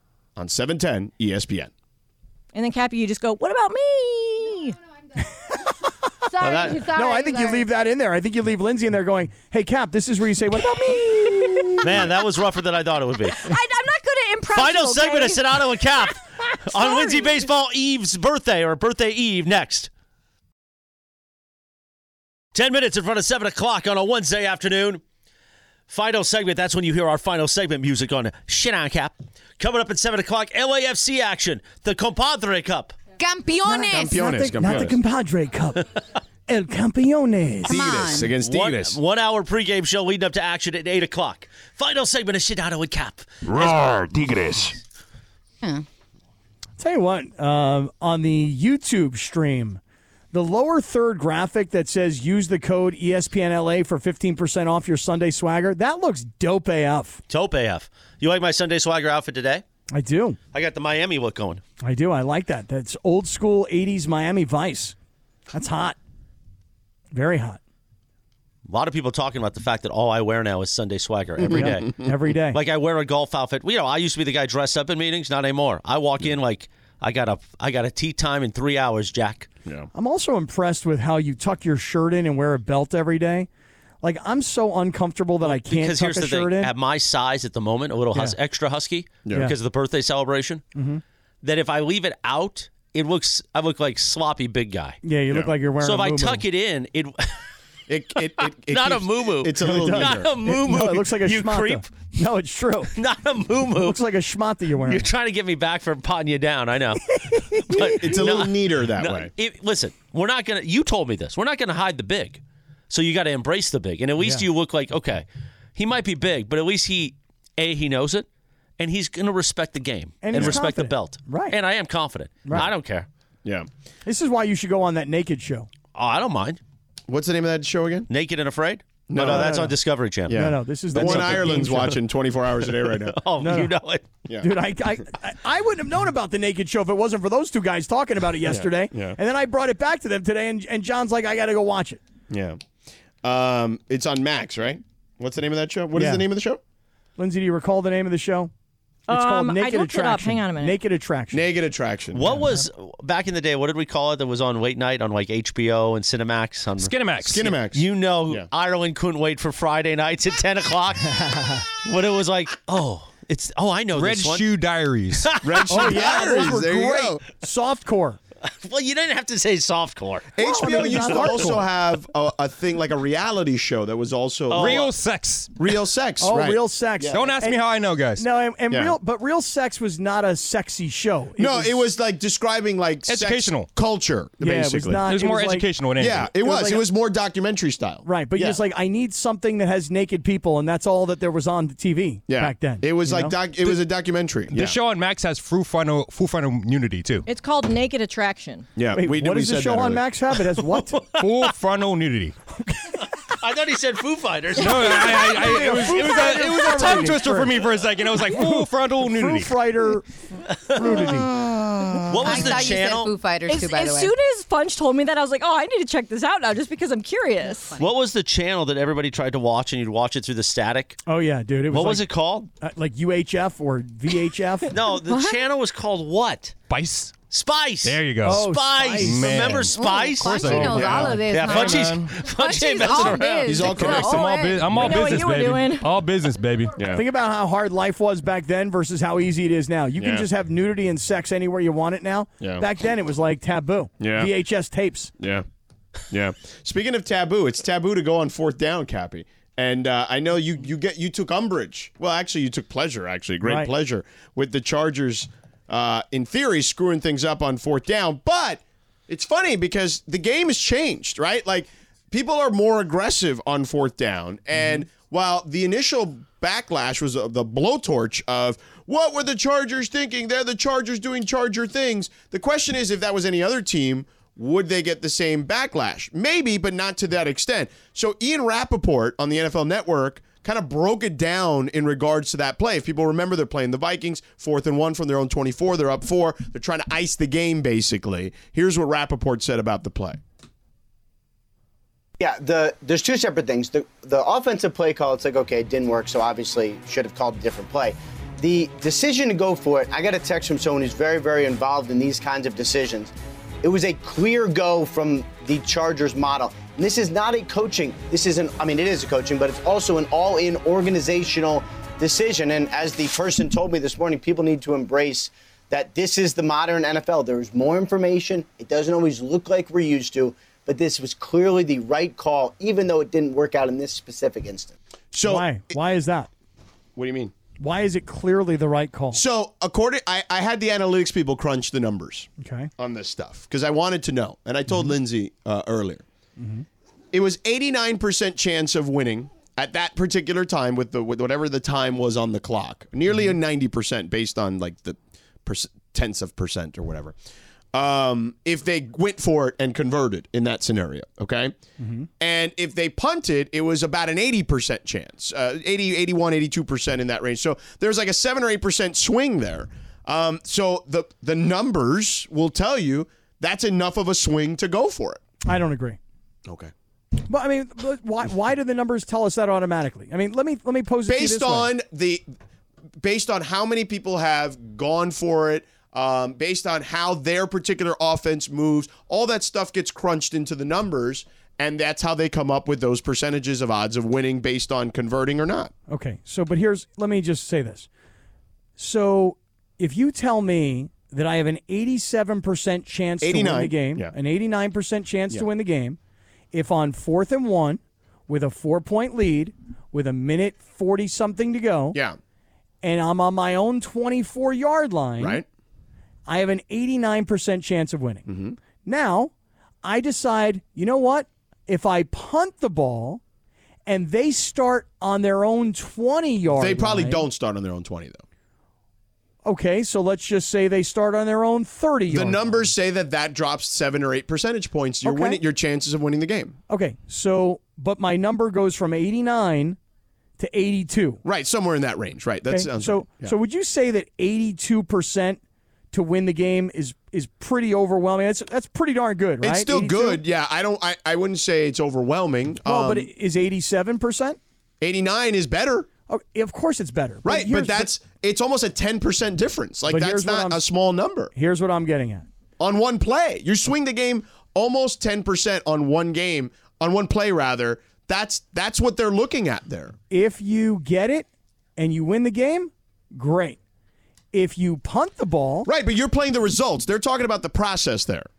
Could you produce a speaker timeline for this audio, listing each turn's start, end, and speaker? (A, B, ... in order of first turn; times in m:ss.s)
0:00.4-0:01.7 A
0:02.5-0:04.8 B
0:06.3-0:07.6 C
0:06.4-0:06.9 D
0:06.7-0:12.1 E
0:11.8-0:13.5 D
0:13.4-0:16.1 B
0:14.5-0:19.9 D
0:16.6-0:17.4 B
0:22.5-0:25.0 D
0:25.9-0:33.0 D
0:33.2-0:34.8 C
0:33.7-0:35.8 E
0:33.9-0:35.0 A
0:36.5-0:37.8 E
0:37.6-0:38.3 C
0:37.7-0:39.0 A
0:38.4-0:43.7 D
0:43.4-0:44.8 A
0:46.8-0:49.8 E
0:50.3-0:57.2 E
0:57.3-0:59.6 D
0:59.9-1:00.4 E
1:00.5-1:01.6 D
1:01.8-1:05.0 E
1:05.5-1:06.0 E
1:07.1-1:07.6 E
1:08.7-1:11.9 D
1:11.4-1:12.1 A
1:11.5-1:12.6 E
1:12.5-1:19.5 D
1:19.9-1:23.5 E
1:24.0-1:26.7 E
1:25.4-1:30.6 D
1:29.2-1:29.5 A
1:30.8-1:31.0 E
1:31.4-1:35.0 D
1:35.0-1:36.4 E
1:35.8-1:37.5 D
1:37.9-1:40.3 A
1:38.4-1:42.1 D
1:39.6-1:43.0 E
1:43.0-1:44.0 D
1:43.8-1:45.1 E
1:44.8-1:55.2 D
1:47.2-1:48.0 E
1:47.7-1:49.3 A
1:54.2-1:54.5 E
1:55.8-1:58.3 D
1:58.8-2:03.1 D
2:00.2-2:01.6 E
2:02.4-2:02.7 E
2:04.1-2:05.7 E
2:06.0-2:06.6 D
2:07.1-2:08.1 A
2:08.1-2:12.0 D
2:09.1-2:09.7 A
2:09.2-2:09.8 E
2:10.3-2:13.3 A
2:10.3-2:12.0 E
2:12.6-2:14.1 D
2:13.4-2:13.7 E
2:14.4-2:22.0 E
2:18.5-2:19.2 A
2:22.3-2:22.6 A
2:23.2-2:26.6 A
2:26.0-2:26.3 E
2:27.2-2:28.5 E
2:29.1-2:30.8 B
2:29.1-2:31.5 E
2:31.3-2:32.3 A
2:32.1-2:44.6 D
2:32.3-2:32.6 E
2:36.8-2:37.5 F
2:37.2-2:38.5 A
2:41.2-2:41.6 E
2:43.9-2:45.4 F
2:45.2-2:46.6 D
2:45.4-2:47.2 A
2:45.7-2:48.2 E
2:48.4-2:51.2 D
2:50.4-2:54.9 A
2:50.4-2:51.7 E
2:54.5-2:54.9 D
2:54.5-2:55.5 F
2:55.6-2:57.3 A
2:56.2-2:57.6 E
2:57.1-2:58.3 F
2:58.2-3:01.8 E
3:01.4-3:05.0 A
3:03.1-3:03.7 F
3:04.4-3:05.8 E
3:05.1-3:06.3 F
3:06.0-3:08.6 A
3:06.3-3:06.9 E
3:08.0-3:13.4 E
3:12.3-3:14.8 A
3:14.5-3:17.3 F
3:17.3-3:18.7 B
3:18.8-3:20.0 A
3:18.9-3:21.0 E
3:20.7-3:21.3 D
3:21.2-3:22.4 F
3:22.6-3:23.0 E
3:23.0-3:27.0 D
3:24.5-3:29.5 F
3:25.1-3:27.5 E
3:28.2-3:30.1 E
3:30.7-3:31.1 D
3:30.7-3:31.3 E
3:30.8-3:34.1 C
3:32.1-3:33.1 D
3:33.5-3:37.7 B
3:37.4-3:37.9 C
3:37.8-3:41.0 D
3:41.1-3:42.1 E
3:41.7-3:42.5 D
3:42.6-3:44.7 E
3:44.7-3:46.6 D
3:45.1-3:45.4 C
3:46.7-3:47.2 F
3:47.3-3:53.8 D
3:47.8-3:52.2 F
3:48.2-3:49.7 E
3:49.5-3:55.0 C
3:50.5-3:51.2 A
3:53.3-3:54.3 A
3:53.8-3:56.8 F
3:54.7-3:55.9 B
3:56.8-3:57.0 A
3:56.8-4:05.1 E
4:00.0-4:00.3 A
4:04.0-4:04.3 A
4:05.2-4:05.4 A
4:06.1-4:50.2 A
4:13.4-4:13.7 E
4:52.2-5:24.8 G
5:25.1-5:25.5 A
5:25.2-5:26.3 E
5:27.0-5:27.3 A
5:27.6-5:29.2 E
5:29.1-5:36.0 A
5:32.4-5:32.7 E
5:34.7-5:34.9 E
5:36.4-5:36.7 E
5:37.1-5:47.2 A
5:47.7-5:51.5 A
5:51.8-5:52.1 E
5:52.2-6:05.2 A
6:05.4-6:06.0 E
6:06.5-6:06.7 A
6:07.3-6:11.7 E
6:11.1-6:12.3 A
6:13.0-6:25.7 A
6:25.9-6:27.9 E
6:28.8-6:36.0 E
6:33.2-6:34.1 A
6:36.5-6:42.0 E
6:42.8-6:45.4 E
6:45.2-6:45.4 A
6:46.3-6:53.2 E
6:48.3-6:48.6 A
6:53.9-6:57.2 E
6:56.5-6:58.2 A
6:59.4-7:02.7 E
7:02.1-7:06.6 A
7:05.0-7:05.4 E
7:06.7-7:09.8 E
7:10.4-7:11.2 E
7:11.2-7:13.3 A
7:12.5-7:15.4 E
7:15.9-7:20.2 E
7:19.4-7:23.1 A
7:22.6-7:24.4 E
7:24.8-7:25.9 A
7:26.1-7:27.9 E
7:27.2-7:31.3 A
7:29.9-7:30.6 E
7:31.3-7:32.3 E
7:32.6-7:40.0 A
7:40.1-7:43.6 E
7:44.3-7:45.7 E
7:45.7-7:48.3 A